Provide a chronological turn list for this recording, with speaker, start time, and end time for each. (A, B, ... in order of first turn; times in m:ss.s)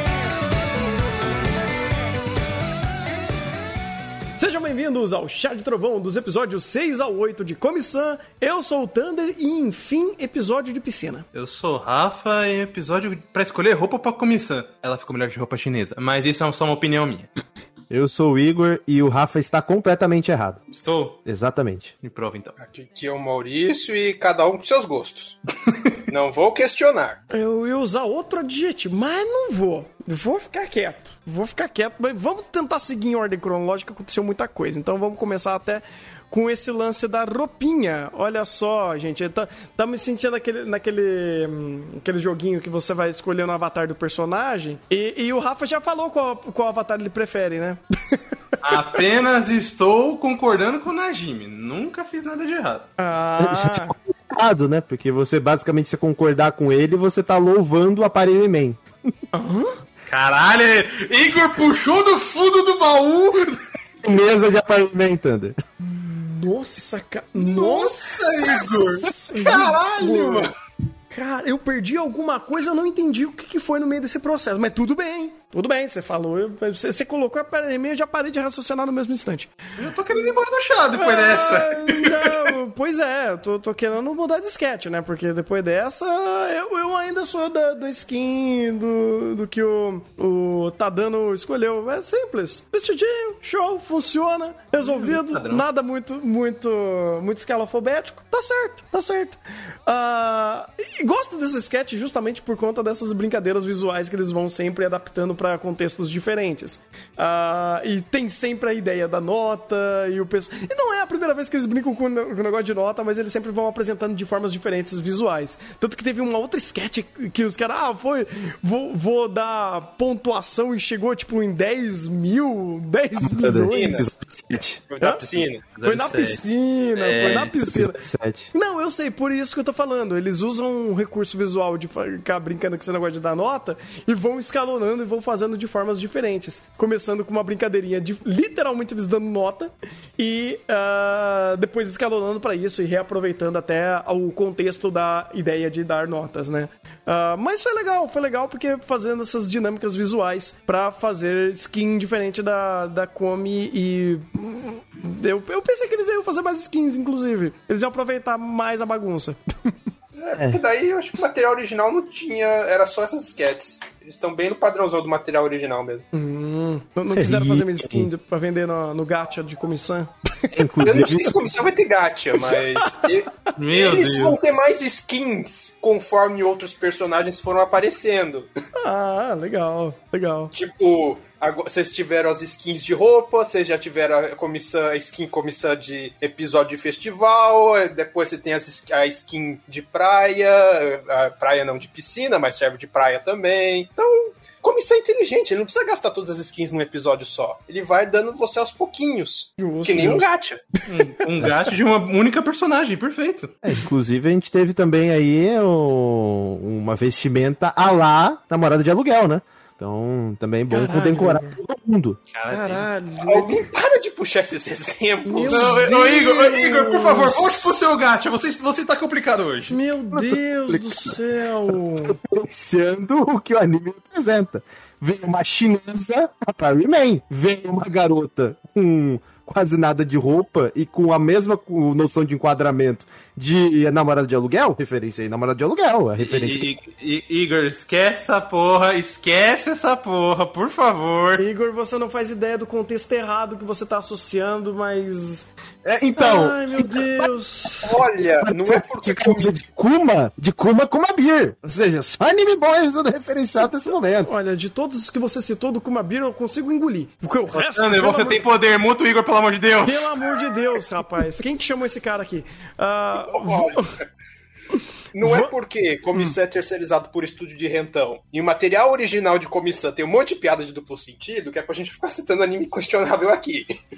0:04.4-0:11.3 A
0:11.3-0:17.3 B
0:17.9-0:20.6 C
0:20.7-0:21.2 B
0:21.2-0:21.9 C
0:22.0-0:22.6 B
0:22.6-0:25.4 D
0:26.1-0:27.2 D
0:27.3-0:48.2 A
0:48.6-0:52.9 B
0:53.0-0:53.9 A
0:53.4-0:58.8 C
0:59.3-0:59.8 A
1:00.1-1:03.6 B
1:04.0-1:05.6 C
1:05.8-1:10.5 A
1:07.4-1:10.5 B
1:11.1-1:19.5 A
1:19.8-1:22.5 B
1:21.0-2:04.1 A
1:34.8-1:35.6 B
2:03.2-2:04.8 C
2:03.7-2:04.1 D
2:04.9-2:05.6 D
2:05.0-2:05.3 A
2:05.6-2:06.4 B
2:05.8-2:08.0 A
2:07.0-2:07.5 B
2:07.6-2:08.5 C
2:08.5-2:39.8 A
2:40.2-2:46.0 D
2:40.4-2:40.6 C
2:46.1-2:50.5 A
2:47.1-2:48.1 C
2:50.5-2:51.4 C
2:50.8-2:58.5 D
2:53.6-2:54.4 B
2:58.8-3:00.5 A
3:00.5-3:20.7 D
3:19.6-3:20.3 A
3:20.9-3:23.5 B
3:23.6-3:32.2 C
3:30.7-3:31.6 A
3:32.3-3:32.9 B
3:32.5-3:33.6 A
3:33.3-3:35.8 D
3:35.3-3:37.9 A
3:35.5-3:39.8 B
3:39.7-3:42.2 A
3:40.7-3:41.1 C
3:42.0-3:56.7 C
3:56.2-4:01.4 B
4:01.4-4:05.5 A
4:05.8-4:07.3 C
4:06.2-4:07.9 A
4:07.8-4:09.6 D
4:08.4-4:14.4 C
4:14.2-4:18.4 A
4:17.5-4:20.4 B
4:19.8-4:23.9 A
4:23.3-4:23.9 D
4:24.7-4:25.5 A
4:25.1-4:33.7 D